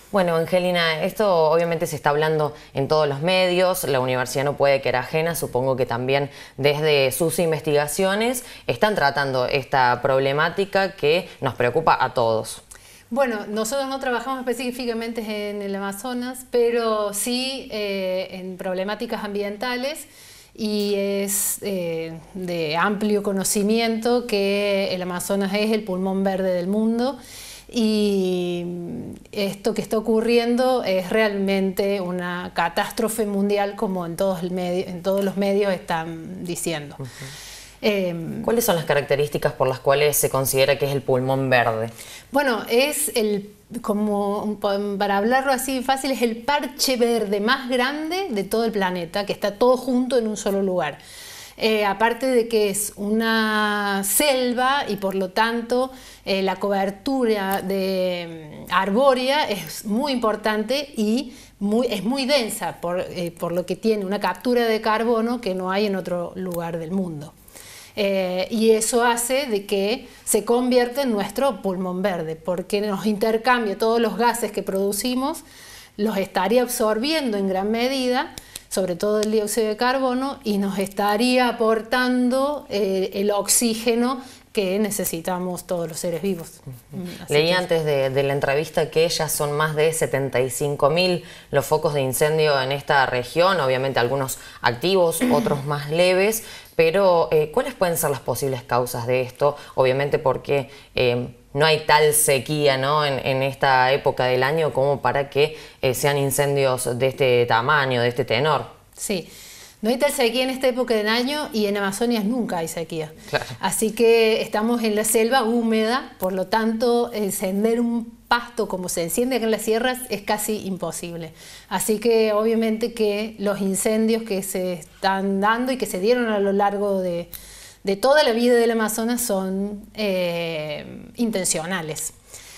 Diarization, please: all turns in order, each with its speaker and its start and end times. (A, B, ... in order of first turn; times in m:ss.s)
0:00.1-0:12.6 A
0:13.1-0:27.2 B
0:27.7-0:37.0 B
0:37.8-0:38.5 B
0:38.4-0:41.9 A
0:42.3-0:51.0 B
0:51.6-1:07.3 B
1:08.0-1:15.4 B
1:16.0-1:27.6 B
1:27.3-1:48.7 A
1:49.0-1:49.3 B
1:49.8-2:07.3 B
1:53.3-1:53.5 A
2:07.8-2:12.1 B